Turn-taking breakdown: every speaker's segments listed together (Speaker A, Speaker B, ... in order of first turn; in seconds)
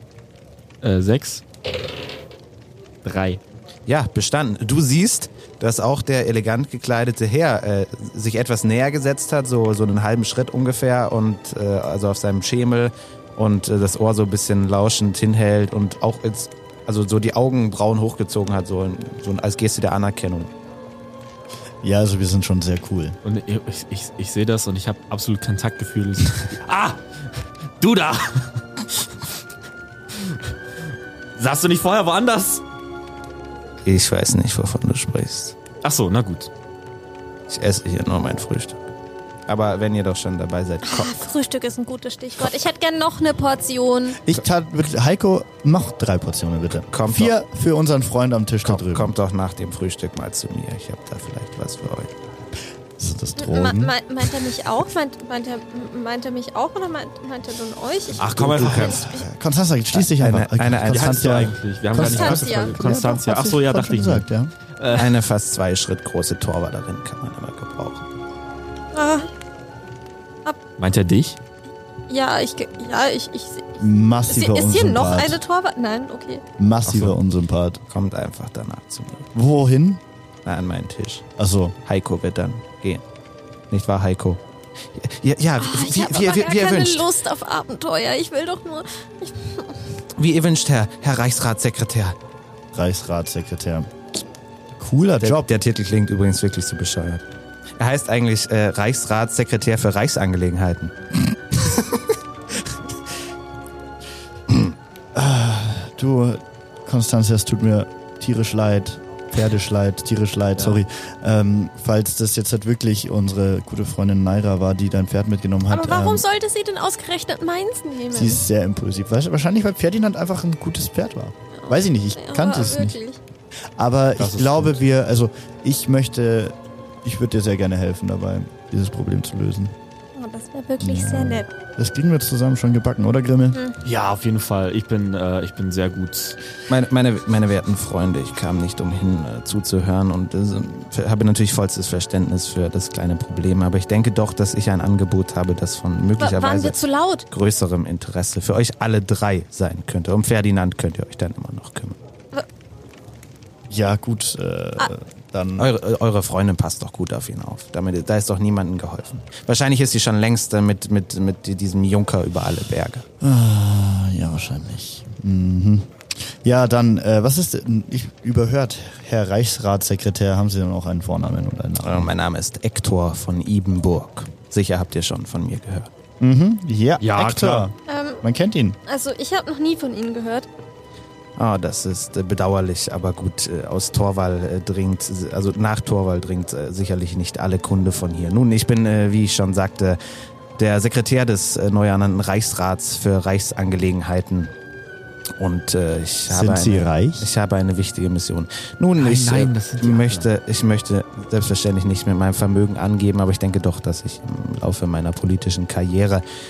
Speaker A: 0.8-1.4, 3.0-3.4, 23.2-27.2, 27.8-29.0, 31.4-32.6, 35.8-36.5, 58.2-59.0, 60.9-65.1, 70.8-71.4, 76.9-77.2, 124.2-124.8, 133.8-136.4, 177.0-177.7, 199.0-200.3
Speaker B: 3.9-20.5, 33.9-35.6, 37.5-38.8, 39.5-41.2, 46.9-47.4, 48.6-52.1, 58.2-59.1, 59.9-61.5, 64.9-68.1, 77.9-79.3, 80.5-81.3, 81.8-83.0, 83.7-84.4, 85.0-87.0, 90.2-92.2, 95.2-97.2, 97.8-100.9, 101.5-102.0, 136.7-152.0, 155.6-163.0, 171.8-175.9, 181.4-190.0, 190.6-194.5, 195.4-206.2
Speaker C: 21.8-23.2, 44.2-49.1, 53.0-53.9, 58.3-64.5, 73.8-75.4, 76.6-77.8, 79.3-80.0, 81.4-81.8, 92.7-93.9, 94.8-95.5, 105.2-116.2, 118.1-123.0, 123.8-129.7, 130.8-133.6, 153.7-155.7, 163.2-172.1, 176.2-178.8, 196.3-197.3
Speaker D: 40.8-44.2, 53.4-58.2, 62.0-63.0, 68.9-69.3, 72.1-76.4, 85.6-89.8, 115.7-118.4, 121.6-123.2, 130.2-131.5, 146.2-147.3, 177.9-178.2, 178.9-180.5